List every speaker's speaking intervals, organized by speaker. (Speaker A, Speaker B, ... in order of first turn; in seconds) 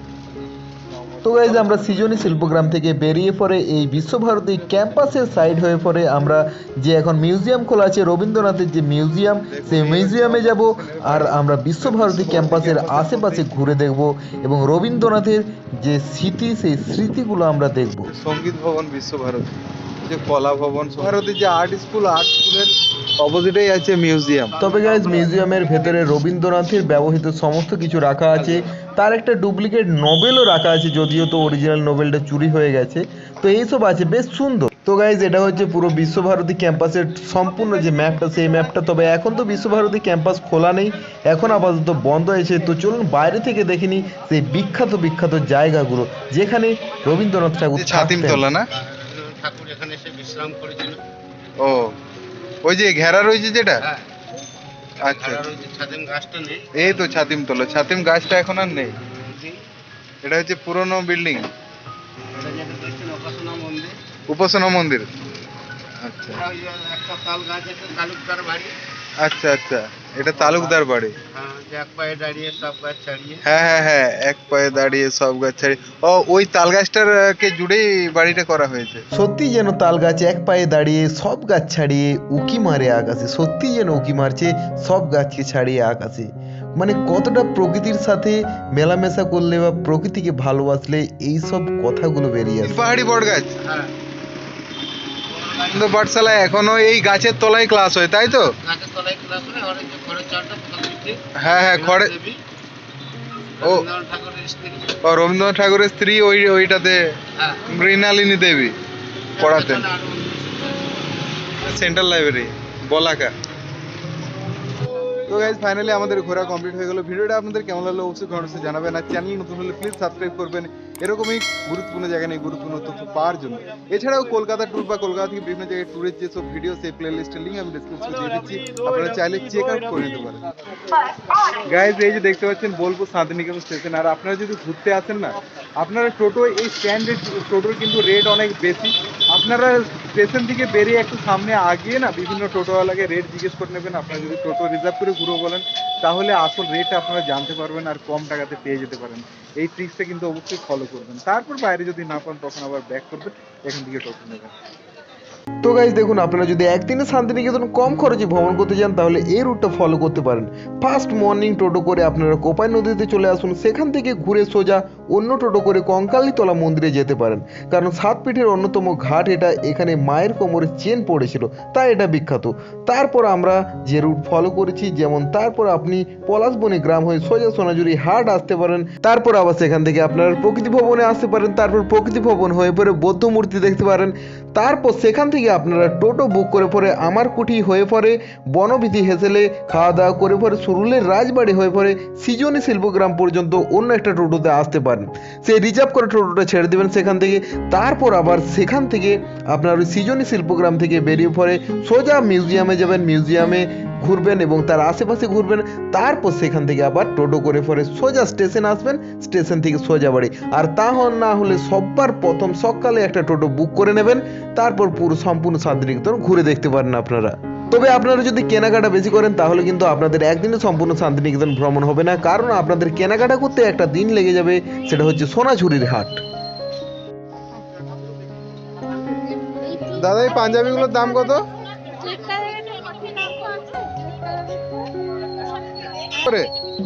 Speaker A: 1.1-2.4, 9.5-13.6, 18.1-24.6, 47.7-48.7, 51.6-52.0, 52.6-53.8, 55.0-55.5, 56.8-58.9, 60.2-61.5, 64.3-65.1, 66.0-66.4, 69.2-71.1, 73.4-79.0, 92.6-93.6, 95.6-98.5, 101.4-102.1, 105.0-107.0, 107.7-108.8, 109.4-109.9, 111.6-113.3, 115.3-130.4, 131.6-154.5, 229.7-231.4, 236.1-236.5
Speaker B: 1.2-18.1, 24.6-48.4, 79.1-92.8, 155.6-226.2
Speaker C: 24.7-25.3, 48.8-51.0, 53.8-54.0, 55.0-57.0, 59.2-59.6, 62.3-63.9, 66.4-68.7, 70.4-73.4, 93.6-93.9, 95.3-96.0, 98.6-102.4, 103.6-105.0, 107.4-107.7, 109.4-111.1